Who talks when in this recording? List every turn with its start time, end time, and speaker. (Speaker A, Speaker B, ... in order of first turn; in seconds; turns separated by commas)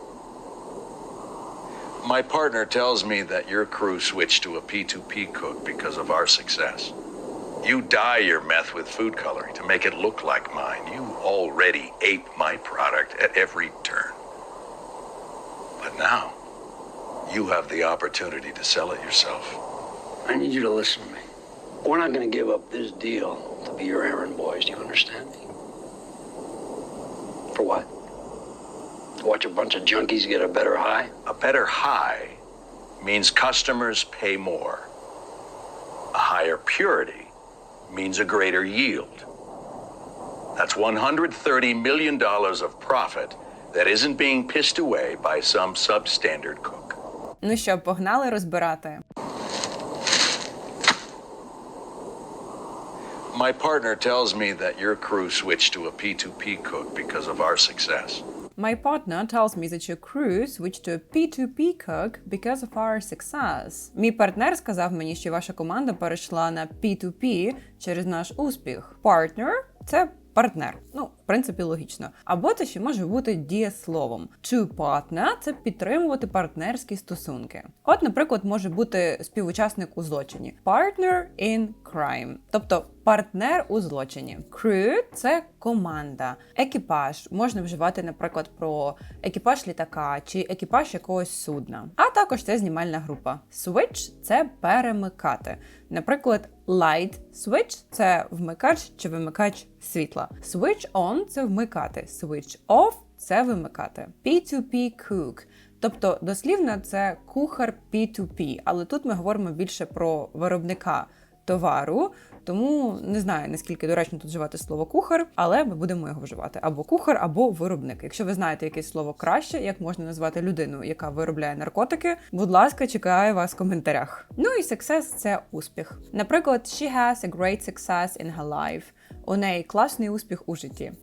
Speaker A: 2.0-6.9, Speaker A: 7.6-14.2, Speaker A: 15.8-16.4, Speaker A: 17.2-19.6, Speaker B: 20.2-21.2, Speaker B: 21.8-25.5, Speaker B: 27.5-27.9, Speaker B: 29.2-31.1, Speaker A: 31.2-32.4, Speaker A: 33.0-34.9, Speaker A: 36.1-37.3, Speaker A: 37.9-39.3, Speaker A: 40.5-47.0, Speaker C: 47.4-49.0, Speaker A: 53.3-58.2, Speaker C: 58.6-130.9